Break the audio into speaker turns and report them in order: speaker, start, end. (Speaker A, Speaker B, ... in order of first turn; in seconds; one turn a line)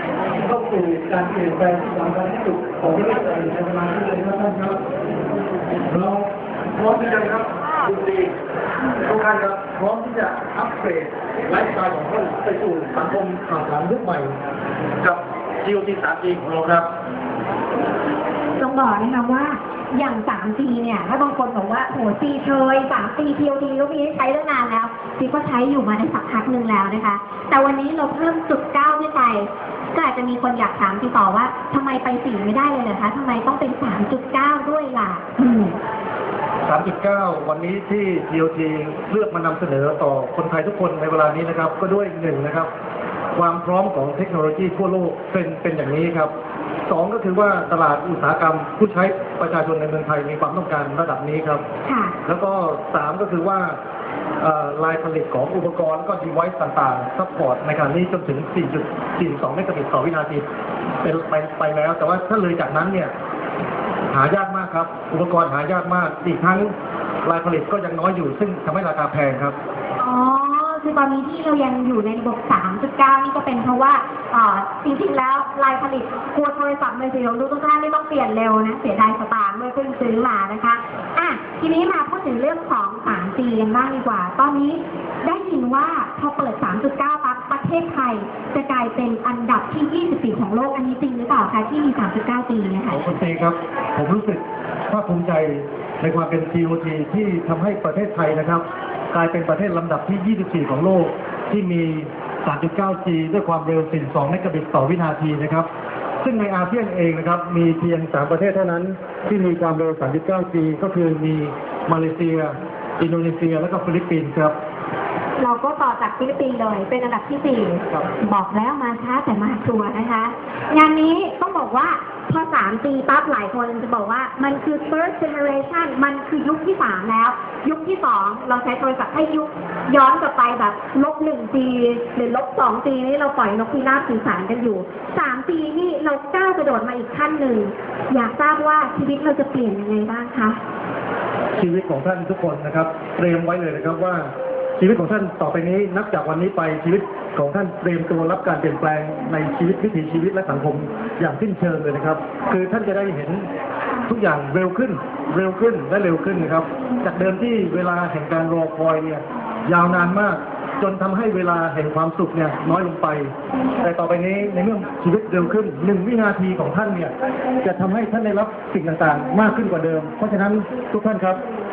Speaker A: 0.4-4.8
Speaker A: 5.9-8.3
Speaker A: 9.0-14.3
Speaker A: 15.0-16.9
Speaker B: 18.6-35.8
Speaker A: 36.7-42.7
Speaker A: 43.4-46.3
Speaker A: 46.9-51.6
Speaker B: 51.9-52.1
Speaker A: 52.2-53.8
Speaker A: 54.4-60.4
Speaker A: 61.0-63.1
Speaker A: 64.1-66.7
Speaker A: 67.2-69.6
Speaker B: 70.0-93.2
Speaker A: 92.9-105.7
Speaker A: 106.2-114.5
Speaker B: 115.4-140.6
Speaker A: 141.6-153.5
Speaker A: 154.1-171.4